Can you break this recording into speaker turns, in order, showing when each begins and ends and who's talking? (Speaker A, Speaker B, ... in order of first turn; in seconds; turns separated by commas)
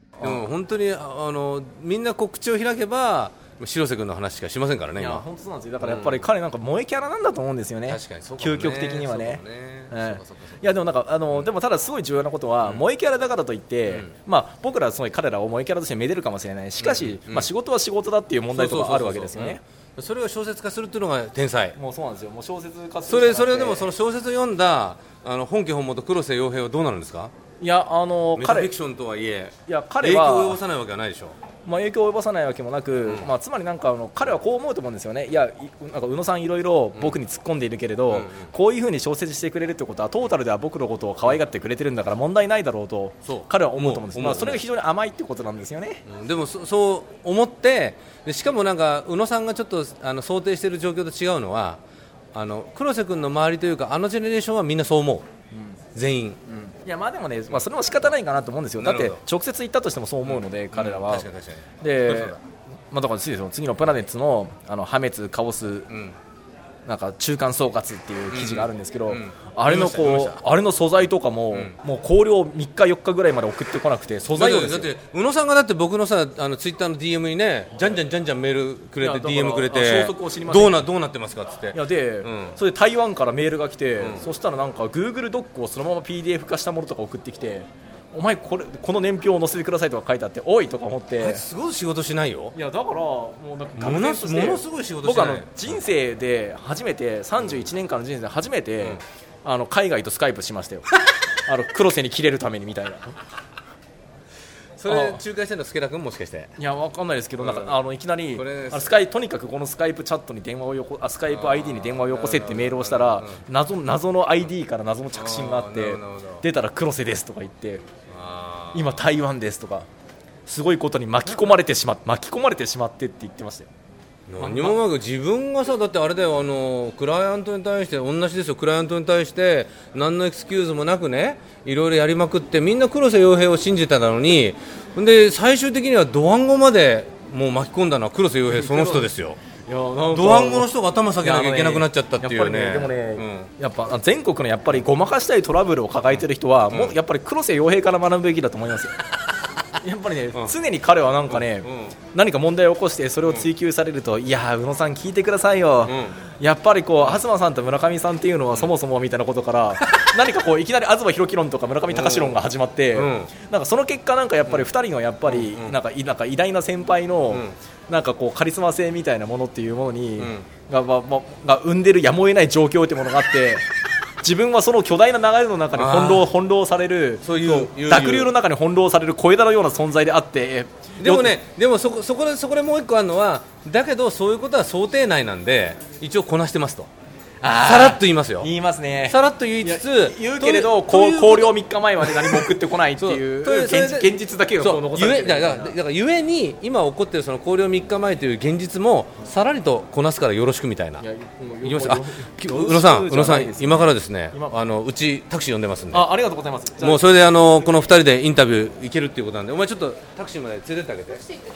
Speaker A: 0.2-0.5, Speaker B: 0.2-5.2, Speaker A: 5.0-19.6, Speaker B: 5.8-6.3, Speaker B: 7.9-10.6, Speaker B: 13.9-14.1, Speaker B: 16.8-17.5, Speaker B: 18.5-21.8, Speaker A: 21.8-23.9, Speaker B: 23.1-27.3, Speaker A: 27.6-28.7, Speaker B: 28.4-31.4, Speaker A: 29.7-30.6, Speaker A: 31.6-46.0, Speaker B: 38.1-38.5, Speaker B: 43.2-44.6, Speaker B: 46.1-51.8, Speaker B: 52.3-55.3, Speaker B: 56.0-56.4, Speaker A: 56.7-61.3, Speaker B: 58.8-59.2, Speaker B: 60.2-62.4, Speaker A: 61.8-62.4, Speaker A: 62.9-65.9, Speaker B: 65.9-66.2, Speaker A: 66.9-74.9, Speaker B: 68.3-70.4, Speaker B: 74.3-82.6, Speaker A: 79.0-80.8, Speaker A: 81.7-91.5, Speaker B: 91.2-92.5, Speaker A: 92.5-100.9, Speaker B: 93.8-95.8, Speaker A: 101.5-103.2, Speaker B: 104.8-106.5, Speaker A: 104.9-105.2, Speaker A: 106.6-117.8, Speaker B: 107.4-107.8, Speaker B: 108.4-108.9, Speaker B: 111.3-113.4, Speaker B: 115.1-116.5, Speaker B: 118.1-119.0, Speaker A: 118.7-119.9, Speaker A: 120.5-123.7, Speaker B: 124.3-139.4, Speaker A: 124.4-124.8, Speaker A: 138.5-139.1, Speaker A: 139.6-148.9, Speaker B: 140.1-143.5, Speaker A: 149.8-173.6, Speaker B: 151.3-152.0, Speaker B: 155.8-156.2, Speaker B: 161.9-162.3, Speaker B: 162.9-163.3, Speaker B: 165.3-165.8, Speaker B: 167.3-167.6, Speaker B: 170.2-170.5, Speaker A: 174.2-181.3, Speaker B: 175.7-176.3, Speaker B: 177.2-178.3, Speaker B: 181.0-186.9, Speaker A: 187.4-195.7, Speaker B: 187.6-188.5, Speaker B: 189.1-201.0, Speaker A: 201.0-204.6, Speaker B: 201.6-206.1, Speaker A: 205.9-207.9, Speaker B: 206.8-211.3